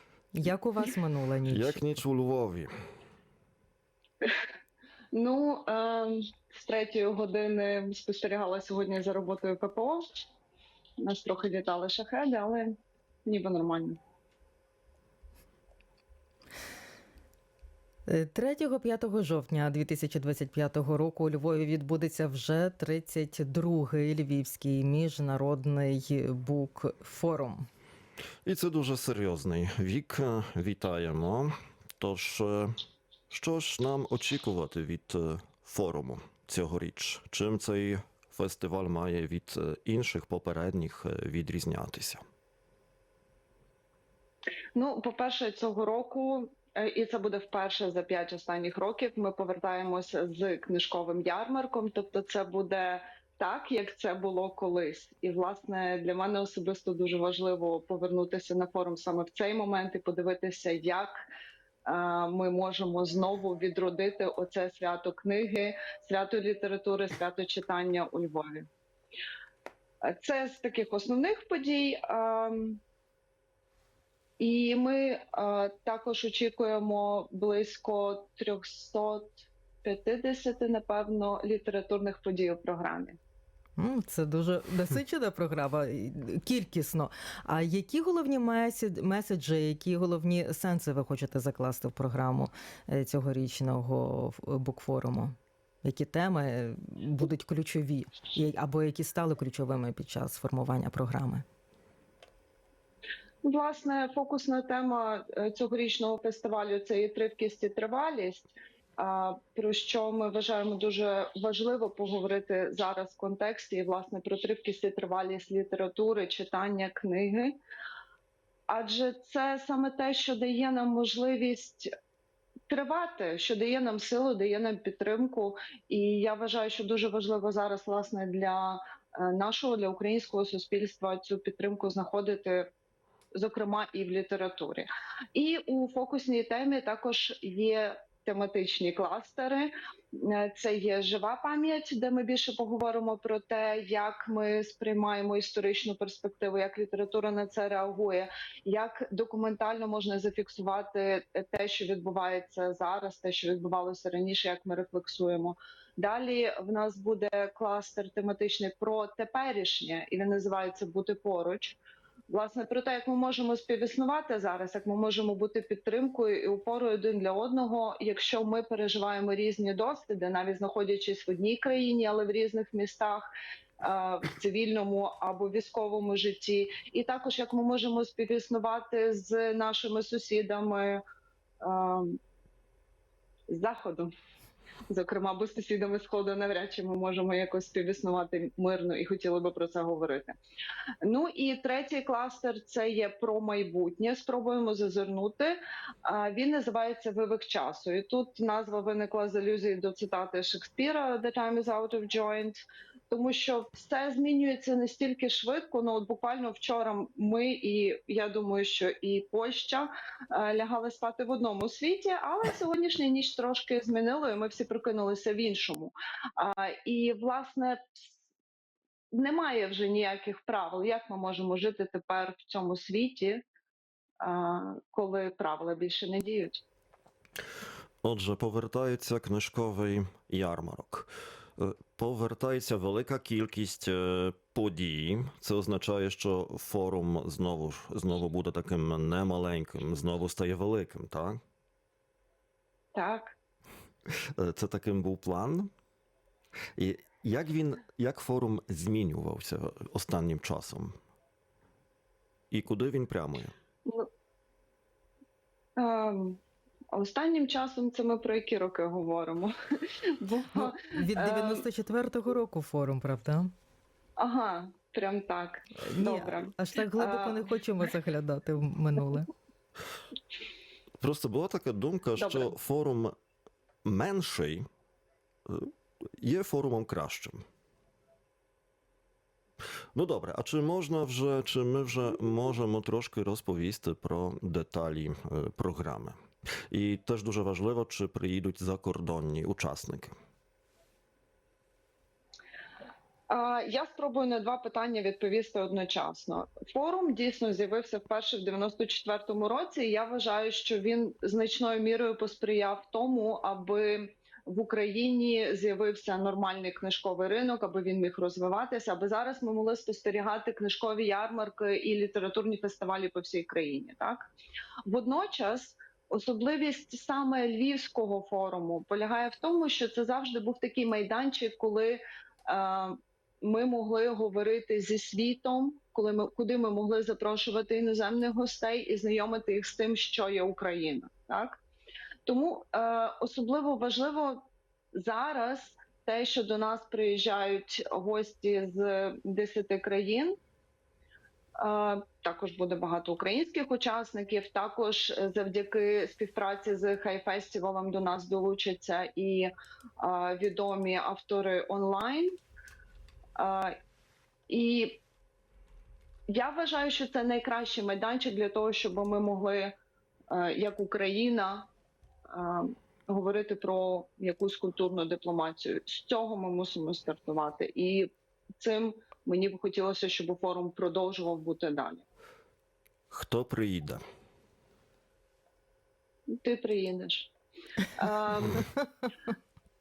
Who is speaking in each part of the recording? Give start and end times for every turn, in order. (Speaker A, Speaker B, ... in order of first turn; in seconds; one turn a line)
Speaker A: 0.3-1.8
Speaker B: 1.5-2.7
Speaker C: 5.1-10.0
Speaker C: 11.0-12.7
Speaker C: 13.2-14.0
Speaker A: 18.1-27.7
Speaker B: 28.4-32.8
Speaker B: 33.3-42.2
Speaker C: 44.7-61.1
Speaker C: 61.9-68.7
Speaker C: 70.0-72.8
Speaker C: 74.4-83.2
Speaker A: 83.8-101.4
Speaker C: 103.4-117.6
Speaker C: 118.7-121.9
Speaker C: 122.7-132.7
Speaker C: 133.3-161.8
Speaker C: 162.3-173.3
Speaker C: 173.8-181.0
Speaker C: 181.6-182.2
Speaker C: 183.5-184.1
Speaker C: 184.9-190.4
Speaker C: 191.0-218.2
Speaker C: 219.1-223.4
Speaker C: 224.2-226.6
Speaker B: 228.0-241.4
Speaker C: 242.9-243.4
Speaker B: 244.4-245.7
Speaker B: 246.8-250.9
Speaker B: 252.5-253.5
Speaker C: 255.8-256.4
Speaker C: 256.9-261.6
Speaker A: 260.5-263.5
Speaker C: 264.2-267.4
Speaker A: 265.8-269.3
Speaker B: 271.0-273.1
Speaker C: 272.2-272.5
Speaker B: 273.9-274.6
Speaker B: 275.4-277.4
Speaker B: 279.9-286.1
Speaker B: 286.7-290.1
Speaker C: 293.3-314.3
Speaker C: 314.9-331.6
Speaker C: 332.2-340.4
Speaker C: 341.6-352.4
Speaker C: 353.4-353.8
Speaker C: 354.5-355.0
Speaker C: 356.3-359.8
Speaker C: 360.3-361.7
Speaker C: 362.3-368.1
Speaker C: 368.6-372.1
Speaker B: 373.1-374.0
Speaker C: 376.4-377.3
Speaker C: 377.9-378.7